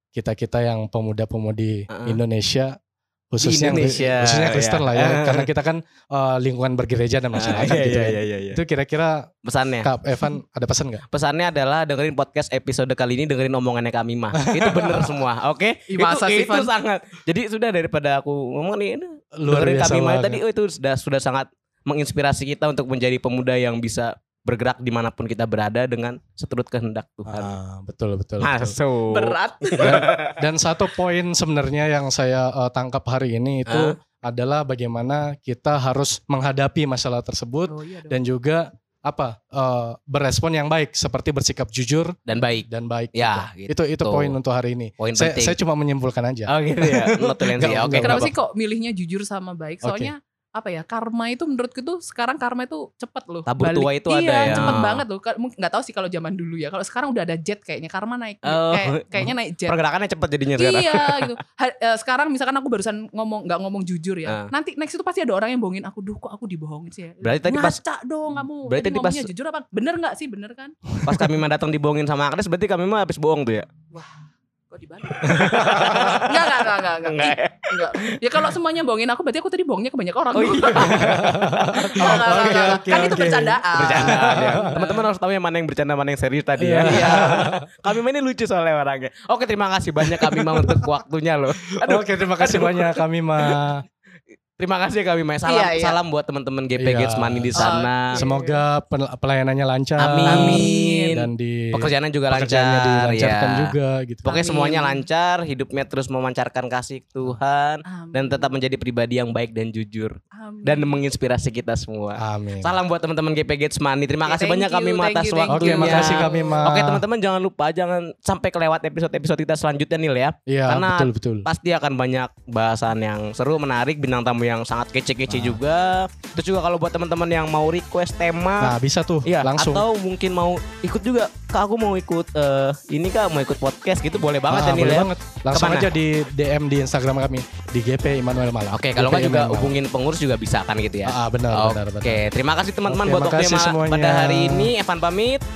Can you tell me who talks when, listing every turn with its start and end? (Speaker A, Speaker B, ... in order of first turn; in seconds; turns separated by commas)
Speaker A: 0.1-2.8, Speaker B: 1.9-2.2, Speaker A: 3.3-9.3, Speaker B: 3.4-5.5, Speaker B: 7.3-8.6, Speaker B: 9.4-9.9, Speaker A: 9.8-11.0, Speaker B: 11.1-27.6, Speaker A: 14.4-15.2, Speaker C: 15.9-16.7, Speaker A: 19.4-20.4, Speaker A: 27.3-28.8, Speaker B: 28.4-30.4, Speaker C: 29.1-30.2, Speaker A: 29.8-42.1, Speaker B: 33.7-34.0, Speaker C: 37.7-38.2, Speaker B: 42.3-44.4, Speaker A: 42.7-48.3, Speaker B: 45.0-45.6, Speaker B: 46.5-48.3, Speaker C: 47.8-59.8, Speaker A: 49.8-50.1, Speaker B: 53.5-55.0, Speaker A: 54.5-54.8, Speaker B: 58.5-61.3, Speaker C: 60.6-70.8, Speaker B: 67.2-67.8, Speaker B: 68.6-69.3, Speaker A: 70.9-71.3, Speaker B: 71.0-73.7, Speaker C: 73.9-81.1, Speaker A: 75.3-76.2, Speaker B: 75.3-78.2, Speaker B: 80.4-93.8, Speaker A: 80.8-84.8, Speaker C: 81.8-85.0, Speaker A: 86.6-87.9, Speaker A: 90.0-90.9, Speaker A: 91.8-93.8, Speaker B: 94.6-98.2, Speaker C: 95.5-96.0, Speaker A: 96.8-104.2, Speaker C: 97.6-98.6, Speaker B: 100.0-128.7, Speaker C: 100.3-101.2, Speaker C: 104.2-105.0, Speaker C: 107.9-108.5, Speaker C: 110.3-111.0, Speaker A: 112.2-112.8, Speaker C: 114.2-116.7, Speaker A: 115.5-117.0, Speaker A: 120.5-121.5, Speaker A: 125.3-125.6, Speaker A: 128.6-129.8, Speaker B: 129.3-135.9, Speaker A: 134.5-139.8, Speaker B: 138.7-145.4, Speaker A: 141.1-142.2, Speaker A: 142.9-144.7